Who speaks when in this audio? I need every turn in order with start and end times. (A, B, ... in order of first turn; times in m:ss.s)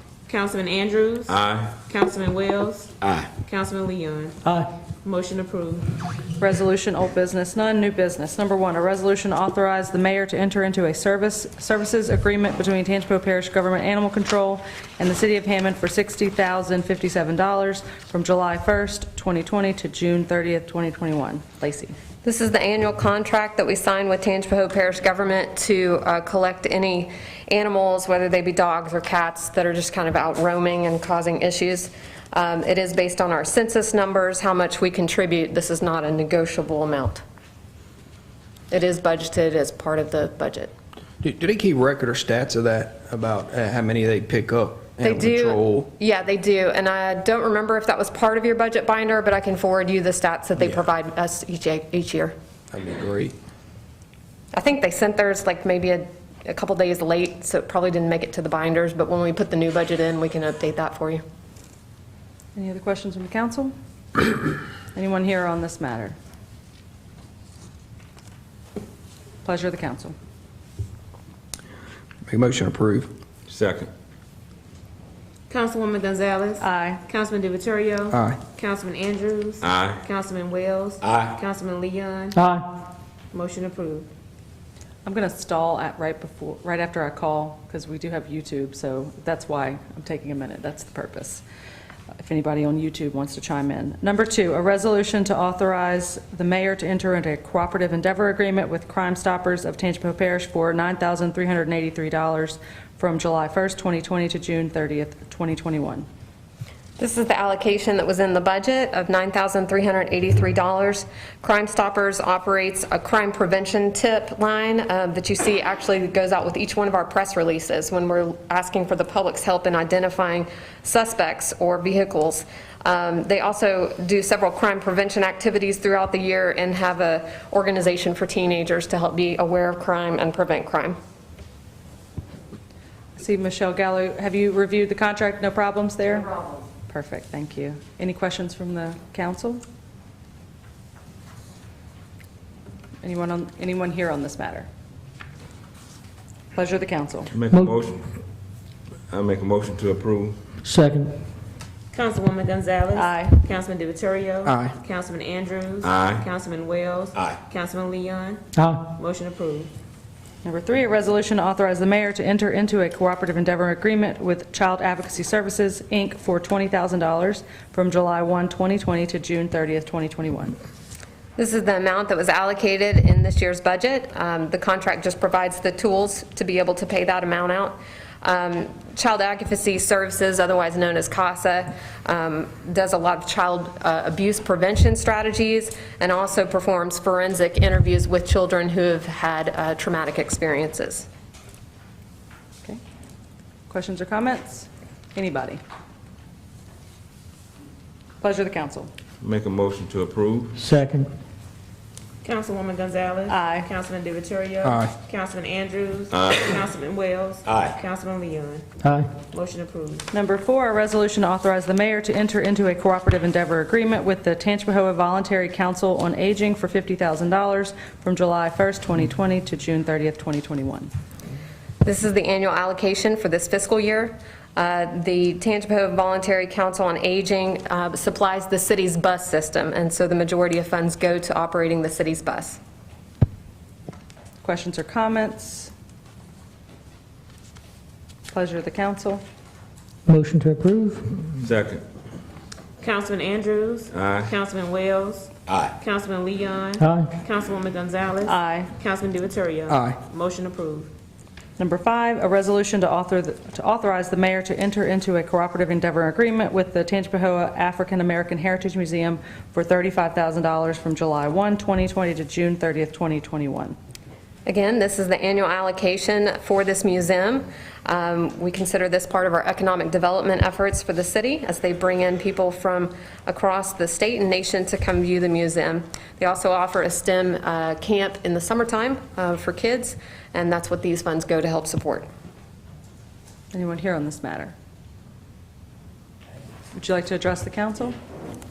0:00.3-0:04.4 A
0:01.3-0:01.8 B
0:03.0-0:03.3 B
0:05.0-0:05.9 A
0:06.4-0:22.0 C
0:22.2-0:37.2 D
0:38.7-0:40.7 D
0:41.2-0:45.9 E
0:45.0-0:52.4 D
0:52.7-0:53.4 E
0:54.5-1:01.2 D
1:02.6-1:03.7 C
1:04.9-1:06.2 C
1:09.4-1:10.1 C
1:12.3-1:13.1 E
1:13.5-1:13.9 B
1:15.5-1:22.4 A
1:16.6-1:17.0 C
1:18.1-1:18.4 E
1:19.6-1:20.0 B
1:21.0-1:21.3 B
1:22.4-1:22.7 F
1:23.3-1:24.1 A
1:25.0-1:31.4 C
1:32.2-1:46.1 C
1:47.0-2:11.0 D
2:13.2-2:19.6 C
2:23.0-2:24.7 C
2:26.5-2:27.3 C
2:27.3-2:28.2 B
2:27.5-2:27.8 F
2:29.1-2:30.6 B
2:30.6-2:31.2 F
2:31.9-2:39.7 A
2:33.0-2:33.4 C
2:34.4-2:34.7 E
2:35.8-2:36.2 B
2:38.6-2:38.8 F
2:40.4-2:50.6 C
2:51.4-3:11.1 D
3:13.7-3:15.6 C
3:18.2-3:18.9 C
3:19.2-3:20.6 B
3:20.6-3:21.1 F
3:22.2-3:28.7 A
3:23.3-3:23.7 C
3:24.6-3:24.9 E
3:26.1-3:26.5 B
3:27.5-3:27.7 B
3:28.8-3:29.1 F
3:29.3-3:30.1 A
3:30.1-3:40.9 C
3:41.8-3:52.6 D
3:54.4-3:55.7 C
3:58.3-3:59.2 C
4:00.1-4:01.2 F
4:01.4-4:01.8 B
4:02.8-4:10.9 A
4:03.9-4:04.3 B
4:06.8-4:07.1 F
4:08.3-4:08.7 C
4:09.7-4:10.0 E
4:11.6-4:23.8 C
4:24.5-4:42.1 D
4:43.5-4:44.6 C
4:46.7-4:48.0 C